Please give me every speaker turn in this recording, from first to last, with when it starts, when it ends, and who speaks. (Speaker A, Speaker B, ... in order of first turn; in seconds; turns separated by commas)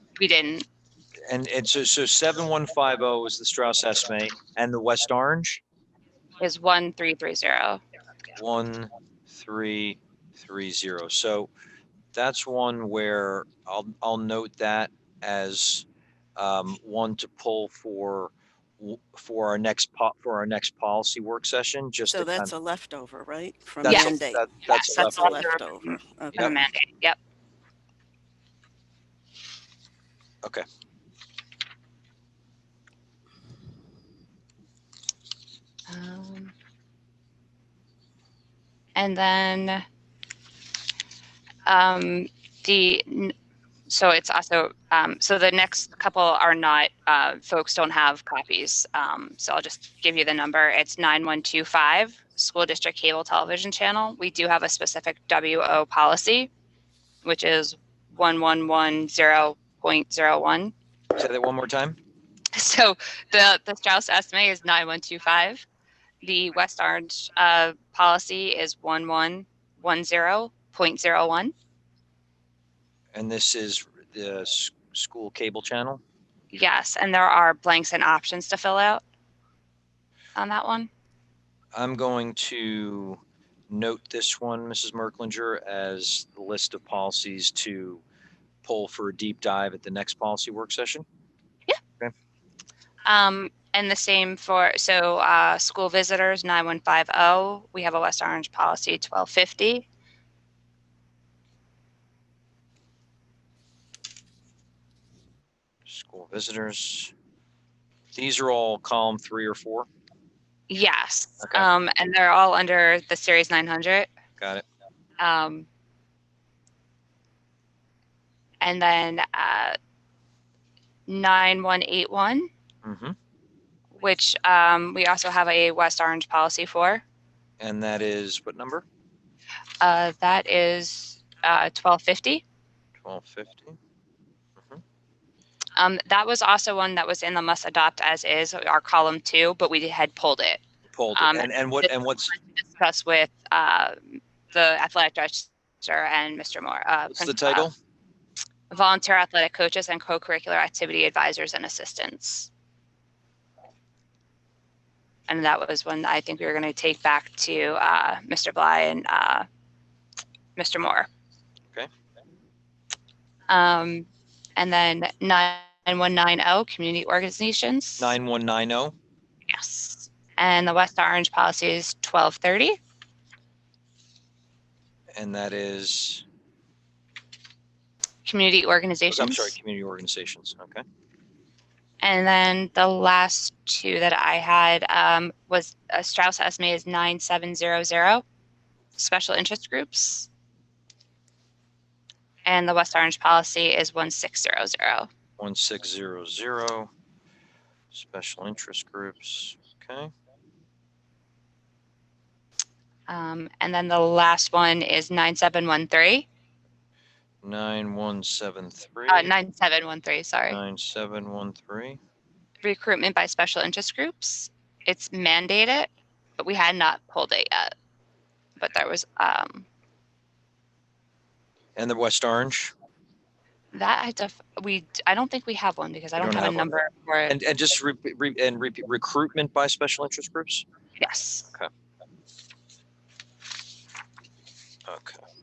Speaker A: 0.2-0.7, Speaker B: 1.3-5.6, Speaker A: 6.4-7.8, Speaker B: 8.4-11.5, Speaker B: 12.1-15.9, Speaker B: 16.4-22.5, Speaker C: 22.1-26.5, Speaker B: 23.8-25.4, Speaker A: 23.9-24.1, Speaker A: 24.7-27.2, Speaker A: 35.9-36.5, Speaker A: 39.0-39.8, Speaker A: 41.7-43.3, Speaker A: 43.9-56.5, Speaker A: 57.2-60.7, Speaker B: 61.1-62.0, Speaker A: 62.5-65.7, Speaker A: 66.2-71.5, Speaker B: 73.1-76.0, Speaker A: 76.5-79.0, Speaker A: 80.4-80.9, Speaker B: 81.8-88.0, Speaker B: 88.6-91.0, Speaker A: 93.0-99.8, Speaker B: 105.9-107.1, Speaker B: 108.2-109.9, Speaker A: 110.7-114.1, Speaker B: 111.4-111.7, Speaker B: 114.4-114.7, Speaker A: 115.2-115.7, Speaker A: 118.6-119.8, Speaker A: 121.1-122.5, Speaker B: 122.8-123.2, Speaker A: 124.0-127.0, Speaker B: 127.6-128.9, Speaker A: 129.8-132.4, Speaker B: 133.0-133.8, Speaker A: 135.8-140.6, Speaker B: 140.9-142.3, Speaker A: 141.2-141.9, Speaker A: 142.8-147.7, Speaker B: 147.1-147.7, Speaker A: 148.7-152.5, Speaker A: 155.3-159.5, Speaker A: 160.6-161.1, Speaker A: 163.5-168.1, Speaker B: 168.0-168.9, Speaker A: 169.5-172.8, Speaker B: 175.1-176.2, Speaker A: 178.2-179.6, Speaker B: 179.1-180.8, Speaker A: 182.0-188.2, Speaker A: 189.0-190.3, Speaker A: 192.4-195.1, Speaker B: 195.4-196.9, Speaker B: 197.9-200.1, Speaker A: 203.1-206.3, Speaker B: 207.4-209.3, Speaker A: 209.1-210.6, Speaker B: 210.5-212.0, Speaker A: 212.6-217.7, Speaker A: 218.6-219.7, Speaker B: 221.8-222.7, Speaker A: 223.7-227.3, Speaker B: 226.2-226.8, Speaker B: 227.3-230.7, Speaker A: 231.0-231.5, Speaker B: 234.9-235.2